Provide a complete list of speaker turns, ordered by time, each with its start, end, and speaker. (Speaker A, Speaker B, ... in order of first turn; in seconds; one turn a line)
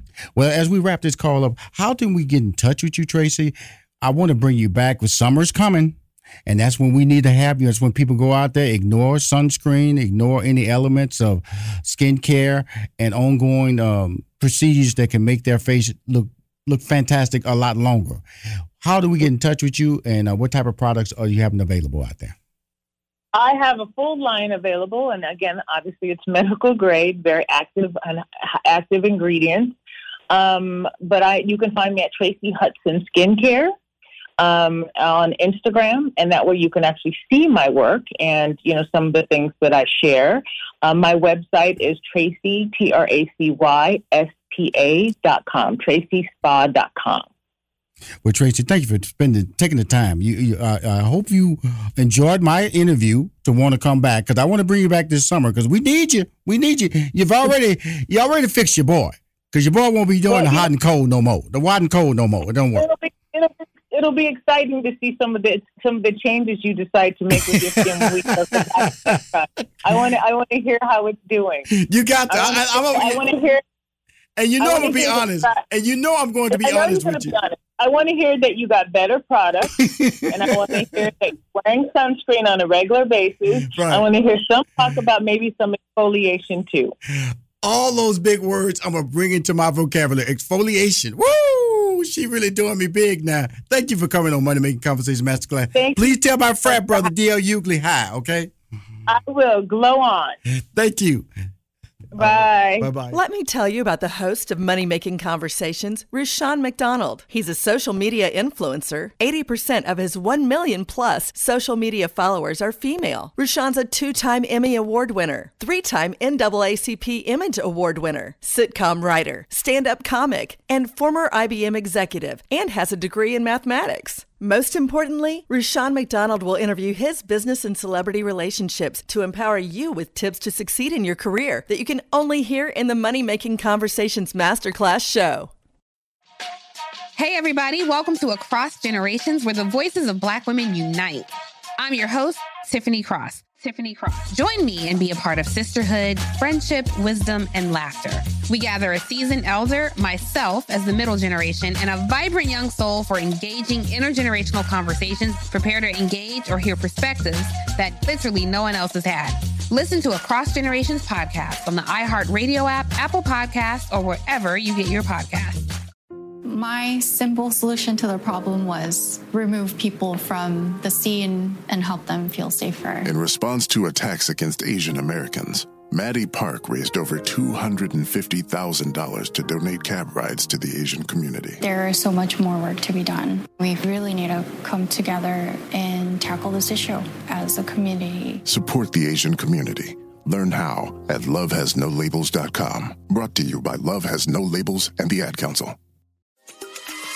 Speaker A: 0.3-18.2
Speaker A: 18.8-22.4
Speaker B: 23.3-29.8
Speaker B: 30.3-33.7
Speaker B: 34.4-47.3
Speaker A: 48.2-62.9
Speaker B: 60.3-60.7
Speaker B: 62.8-71.7
Speaker A: 67.3-69.2
Speaker A: 71.7-73.2
Speaker B: 72.3-73.6
Speaker A: 74.4-77.3
Speaker B: 74.6-75.6
Speaker B: 76.5-79.8
Speaker A: 79.8-80.8
Speaker B: 80.3-87.0
Speaker A: 83.7-84.0
Speaker A: 87.1-98.5
Speaker B: 95.7-97.1
Speaker B: 99.1-100.4
Speaker A: 100.7-101.3
Speaker A: 102.1-103.2
Speaker B: 102.2-102.9
Speaker C: 103.1-135.5
Speaker D: 137.2-165.6
Speaker E: 166.4-173.1
Speaker F: 173.1-181.6
Speaker E: 181.6-188.4
Speaker F: 188.5-195.8